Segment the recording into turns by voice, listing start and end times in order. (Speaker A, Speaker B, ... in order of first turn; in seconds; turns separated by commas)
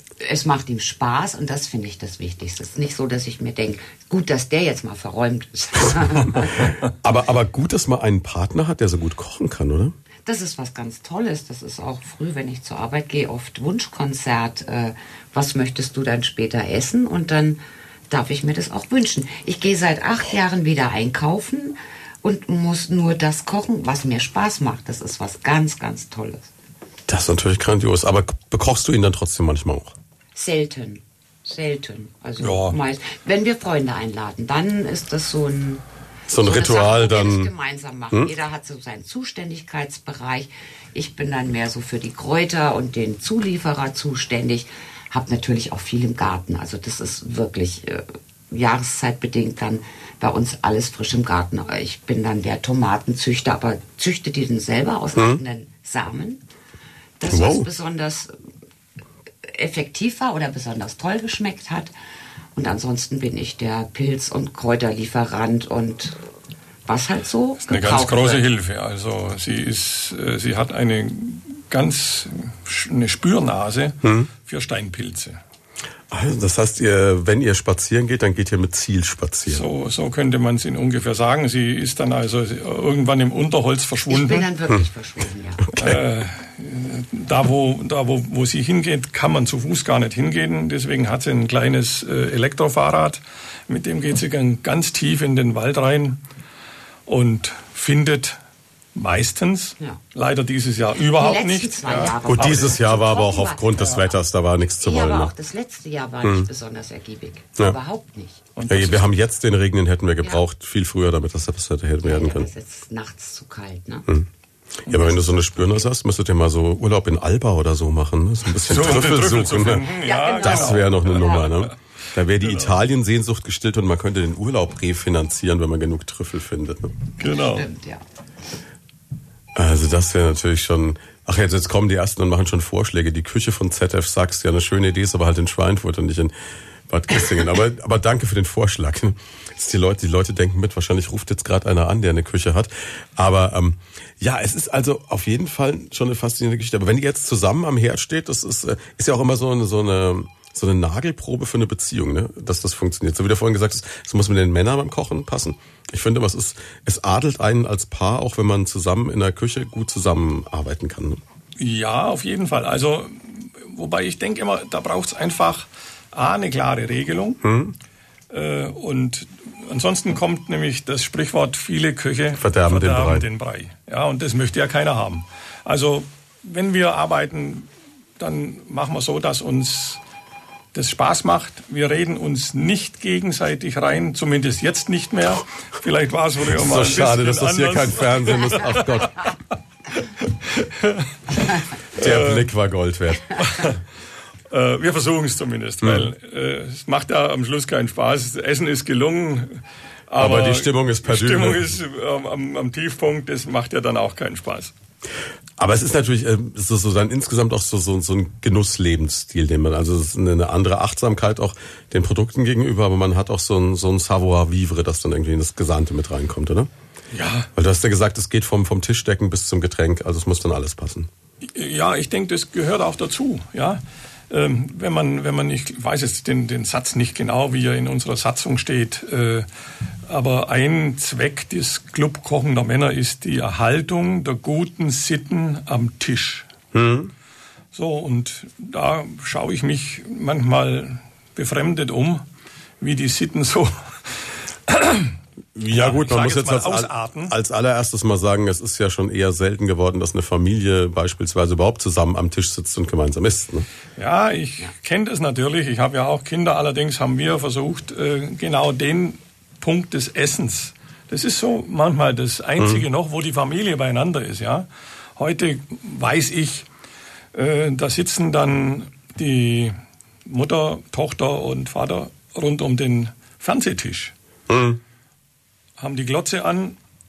Speaker A: 0.2-6.7, Speaker B: 5.8-9.9, Speaker A: 10.2-26.5, Speaker B: 27.1-29.9, Speaker A: 30.3-56.4, Speaker C: 32.4-32.8, Speaker B: 36.3-37.5, Speaker A: 57.2-58.3, Speaker B: 57.3-57.7, Speaker A: 59.4-61.9, Speaker A: 62.5-66.2, Speaker A: 66.8-68.4, Speaker C: 67.7-75.4, Speaker B: 74.0-74.3, Speaker B: 76.1-79.7, Speaker C: 79.5-84.5, Speaker A: 84.1-85.7, Speaker B: 85.6-86.0, Speaker C: 85.7-96.2, Speaker C: 97.0-98.4, Speaker C: 98.9-102.8, Speaker A: 101.1-104.1, Speaker B: 102.2-105.3, Speaker A: 104.8-108.4, Speaker B: 106.2-106.5, Speaker C: 108.6-109.1, Speaker B: 108.7-112.5, Speaker A: 112.0-114.1, Speaker B: 114.8-127.0, Speaker C: 118.6-121.7, Speaker A: 120.0-121.5, Speaker C: 122.4-122.8, Speaker C: 127.2-127.7, Speaker A: 127.4-128.0, Speaker B: 129.6-136.3, Speaker B: 136.9-161.2, Speaker C: 161.6-167.4, Speaker B: 167.4-167.7, Speaker C: 168.3-180.0, Speaker B: 172.4-173.2, Speaker C: 180.7-189.3, Speaker B: 186.5-189.3, Speaker C: 189.9-192.5, Speaker B: 191.9-193.4, Speaker C: 193.3-193.8, Speaker C: 194.5-204.7, Speaker B: 195.8-196.1, Speaker B: 200.2-201.7, Speaker B: 205.6-216.7, Speaker C: 217.1-217.5, Speaker B: 217.5-221.1, Speaker C: 221.4-229.5, Speaker C: 230.1-236.5, Speaker B: 236.7-237.1, Speaker C: 237.7-242.2, Speaker C: 242.8-245.2, Speaker B: 245.5-253.7, Speaker C: 245.7-247.3, Speaker C: 254.0-266.7, Speaker C: 267.3-274.1, Speaker B: 274.5-274.8, Speaker C: 275.8-276.8